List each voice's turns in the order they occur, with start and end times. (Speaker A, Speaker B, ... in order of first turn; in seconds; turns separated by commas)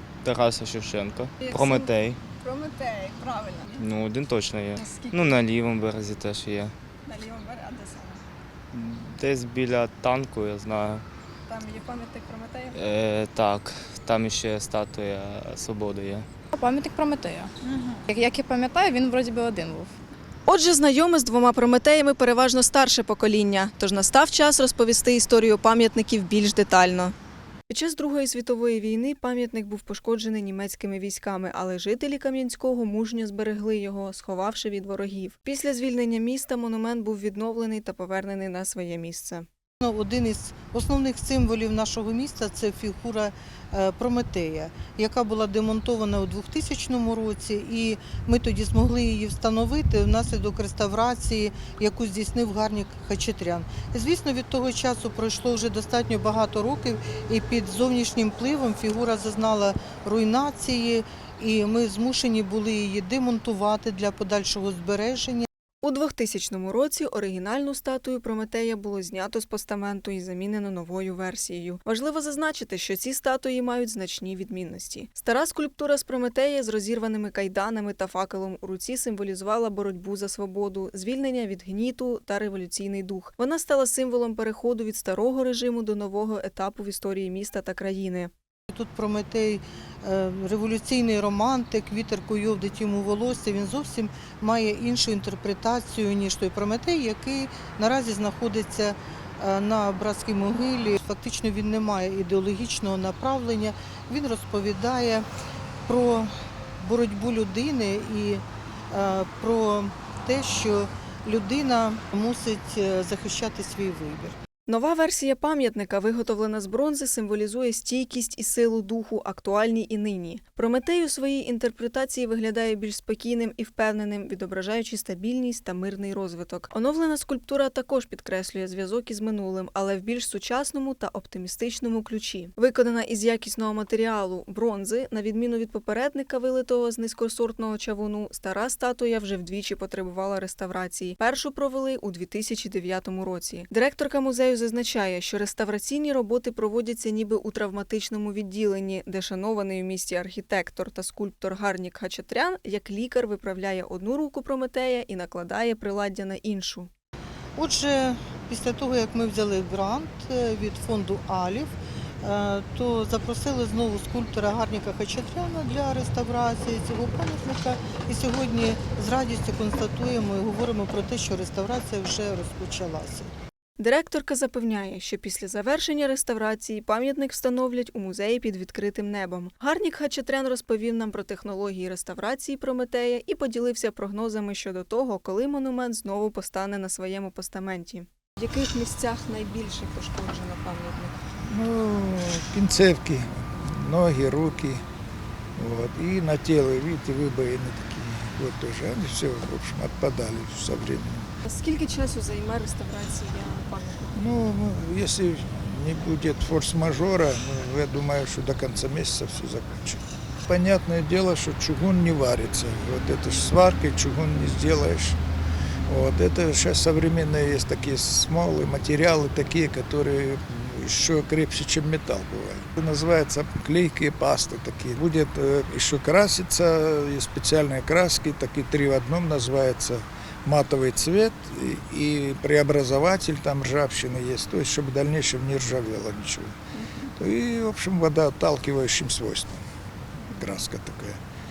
Speaker A: 0.2-2.2, Speaker B: 2.4-3.6, Speaker A: 3.7-6.7, Speaker B: 4.8-5.1, Speaker B: 7.1-8.2, Speaker A: 8.7-11.0, Speaker B: 11.5-12.5, Speaker A: 12.7-16.3, Speaker C: 16.5-17.5, Speaker C: 18.1-19.9, Speaker B: 20.5-27.1, Speaker B: 27.7-39.5, Speaker D: 39.8-65.5, Speaker B: 65.8-88.3, Speaker D: 88.7-105.2, Speaker D: 105.9-114.3, Speaker B: 114.7-156.9, Speaker D: 157.6-173.3, Speaker B: 173.8-191.1, Speaker E: 191.5-194.8, Speaker E: 195.6-201.2, Speaker B: 201.4-204.1, Speaker E: 204.2-215.2, Speaker E: 215.9-236.5, Speaker B: 236.8-237.1, Speaker E: 237.2-239.6, Speaker E: 240.4-241.2